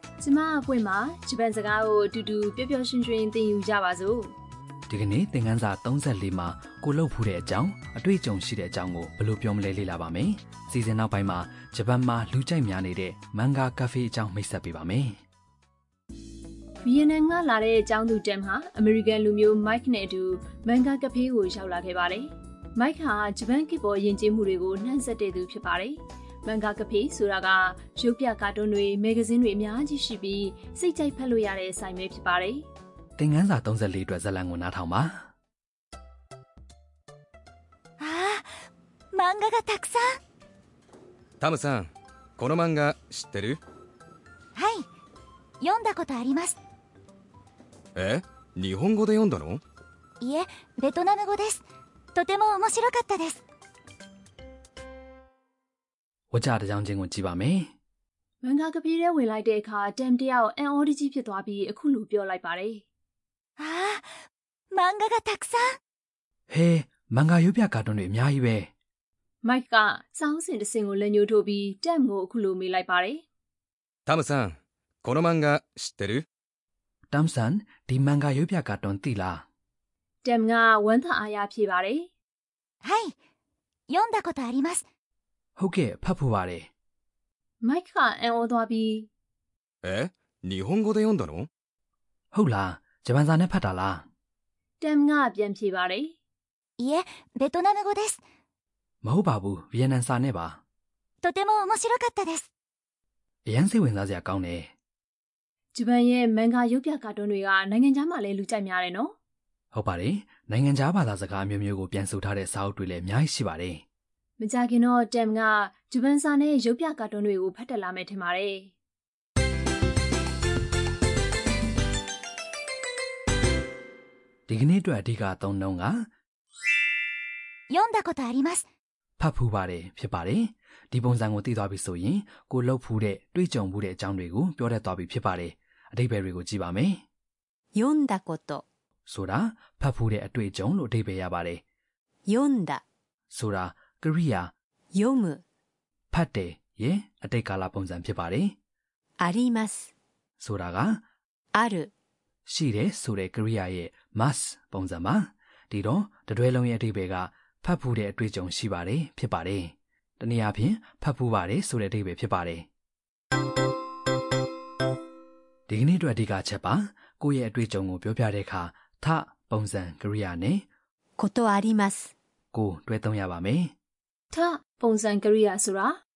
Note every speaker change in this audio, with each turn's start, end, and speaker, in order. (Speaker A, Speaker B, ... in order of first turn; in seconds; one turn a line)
Speaker A: 0.2-4.3
Speaker B: 4.9-15.2
Speaker A: 16.8-32.6
Speaker B: 33.2-35.3
Speaker C: 38.0-38.5
Speaker C: 39.1-40.2
Speaker D: 41.4-43.6
Speaker C: 44.5-44.9
Speaker C: 45.6-46.6
Speaker D: 48.0-49.6
Speaker C: 50.2-51.6
Speaker C: 52.1-53.4
Speaker B: 56.3-57.7
Speaker A: 58.4-62.8
Speaker C: 63.6-64.1
Speaker C: 64.7-65.8
Speaker B: 66.5-68.7
Speaker A: 69.4-73.2
Speaker D: 74.1-76.2
Speaker B: 77.1-79.4
Speaker A: 80.2-82.1
Speaker C: 82.8-83.1
Speaker C: 83.9-84.8
Speaker B: 85.6-86.7
Speaker A: 87.6-89.1
Speaker D: 89.8-91.5
Speaker B: 92.3-94.1
Speaker A: 94.8-96.1
Speaker C: 96.8-98.2
Speaker B: 99.0-100.6
Speaker C: 101.2-102.5
Speaker B: 103.5-104.7
Speaker A: 105.7-109.1
Speaker B: 109.7-113.8
Speaker A: 114.4-118.7
Speaker B: 124.5-126.0
Speaker C: 127.7-128.6
Speaker B: 129.2-137.0
Speaker E: 137.8-138.6
Speaker B: 139.1-141.6
Speaker E: 142.3-142.8
Speaker B: 143.3-144.5
Speaker E: 144.9-145.4
Speaker B: 146.1-148.6
Speaker E: 149.2-149.9
Speaker B: 150.4-151.0
Speaker E: 151.5-151.9
Speaker B: 152.5-162.7
Speaker B: 165.7-170.7
Speaker E: 171.2-172.1
Speaker B: 172.5-173.7
Speaker A: 174.3-176.0